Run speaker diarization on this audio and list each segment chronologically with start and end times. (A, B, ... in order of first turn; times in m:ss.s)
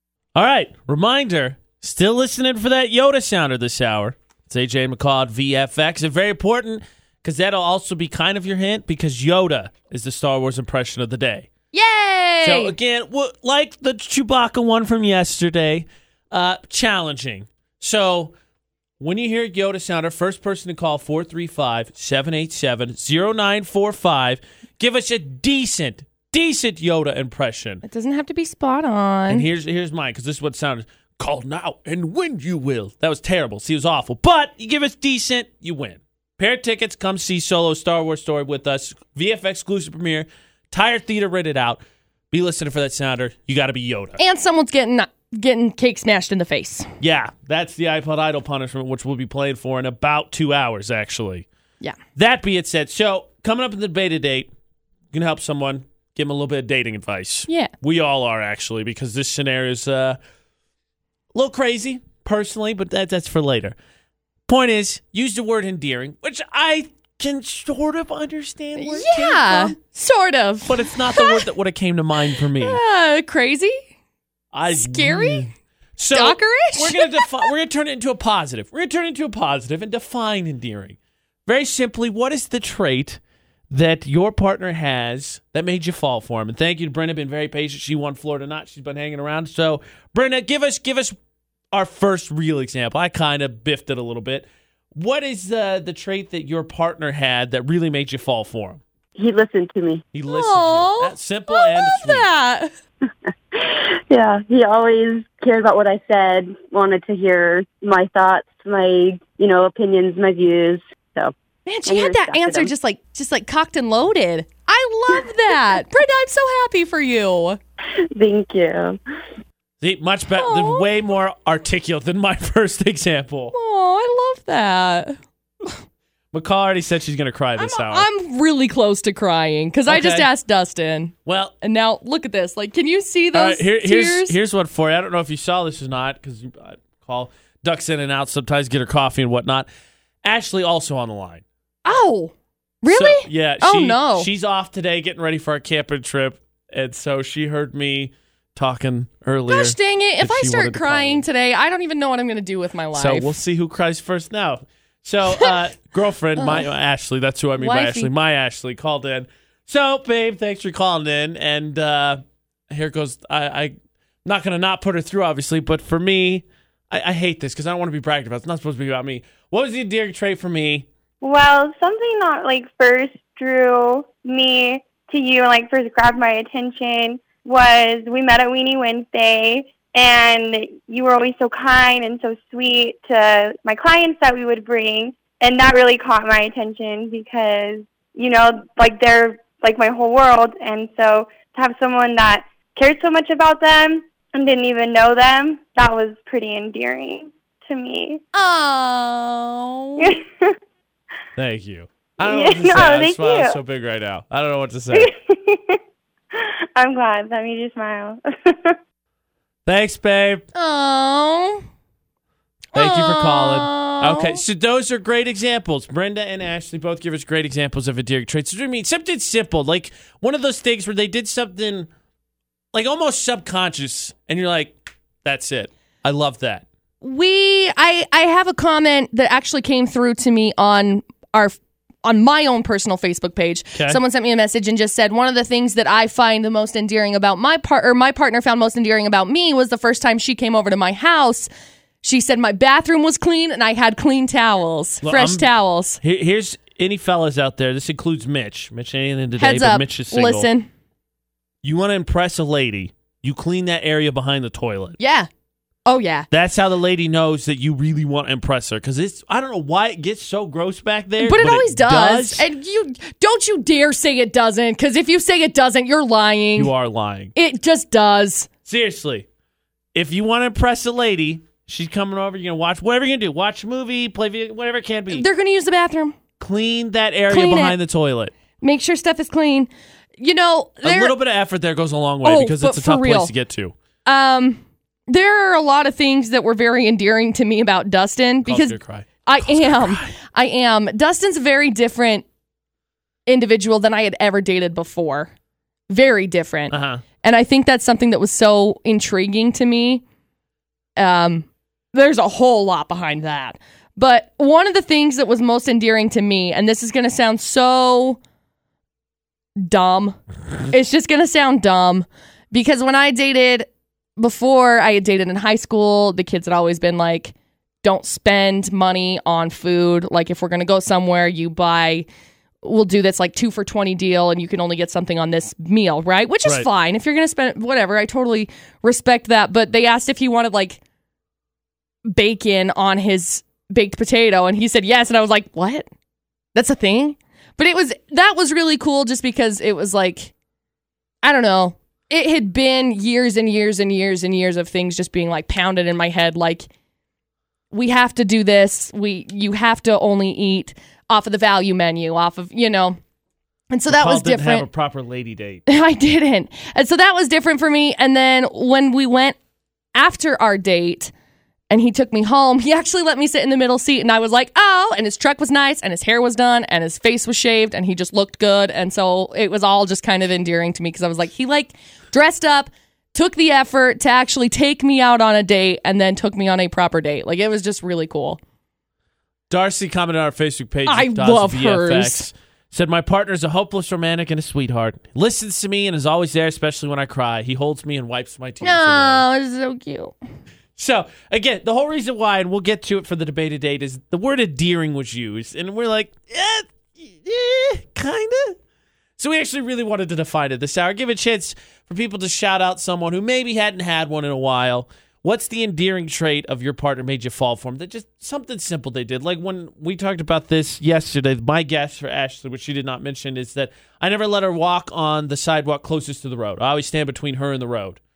0:00.3-0:11.5 A
0:11.7-0:12.7 B
0:12.4-0:18.3 A
0:19.0-0:27.8 A
0:27.8-0:29.4 B
0:29.3-0:44.2 A
0:44.2-0:46.9 B
0:47.0-0:51.4 A
0:52.2-0:54.5 A
0:55.1-1:00.2 A
0:57.5-0:57.7 B
1:01.3-1:03.7 A
1:04.5-1:09.8 A
1:08.8-1:11.5 B
1:10.6-1:12.8 A
1:12.5-1:13.8 B
1:14.5-1:31.2 A
1:14.7-1:15.5 B
1:16.1-1:17.5 B
1:31.7-1:38.8 A
1:39.2-1:40.0 C
1:40.1-1:42.3 A
1:40.2-1:42.7 B
1:43.5-1:51.3 C
1:51.6-1:57.6 B
1:51.8-1:52.7 C
1:58.0-1:59.0 C
1:59.8-2:03.5 A
2:00.3-2:00.9 B
2:03.5-2:05.8 B
2:06.3-2:08.0 A
2:07.6-2:14.4 B
2:09.9-2:10.3 A
2:11.2-2:11.5 A
2:13.3-2:19.7 A
2:20.2-2:21.4 A
2:21.8-2:24.3 B
2:22.9-2:31.2 A
2:29.5-2:33.4 B
2:32.9-2:43.7 A
2:36.4-2:36.7 B
2:37.6-2:38.1 B
2:44.2-2:50.9 A
2:51.2-3:18.2 D
3:18.3-3:20.2 B
3:20.0-3:20.6 D
3:21.4-3:25.1 A
3:22.2-3:23.6 D
3:24.9-3:25.8 D
3:26.3-3:28.8 D
3:29.6-3:30.4 A
3:30.5-3:31.6 B
3:32.7-3:34.4 B
3:32.7-3:41.9 A
3:42.7-3:46.6 A
3:47.0-4:01.5 B
3:53.7-3:54.0 A
4:02.0-4:06.0 B
4:05.0-4:05.5 A
4:06.0-4:10.5 A
4:09.4-4:10.7 B
4:11.6-4:15.0 A
4:15.0-4:15.3 B
4:15.8-4:16.3 B
4:16.3-4:22.4 A
4:21.2-4:26.7 B
4:26.6-4:27.3 A
4:27.3-4:28.5 B
4:28.6-4:29.2 A
4:29.9-4:35.3 A
4:35.1-4:36.2 B
4:36.4-4:38.3 A
4:37.3-4:37.8 B
4:38.6-4:41.1 B
4:40.8-4:43.7 A
4:42.2-4:43.3 B
4:44.0-4:52.2 B
4:48.4-4:50.2 A
4:53.3-4:55.3 B
4:55.9-5:00.0 B
4:56.7-4:57.0 A
5:01.0-5:08.2 B
5:09.6-5:22.1 B
5:22.6-5:30.8 B
5:32.0-5:35.9 B
5:36.5-5:40.3 B
5:41.2-5:46.7 B
5:47.7-5:53.0 B
5:53.7-5:54.7 B
5:53.9-5:55.6 A
5:55.7-5:59.4 B
5:59.9-6:01.1 B
6:01.7-6:18.4 B
6:19.5-6:29.2 A
6:20.8-6:22.3 B
6:28.6-6:30.1 B
6:30.8-6:38.6 A
6:39.2-6:58.0 A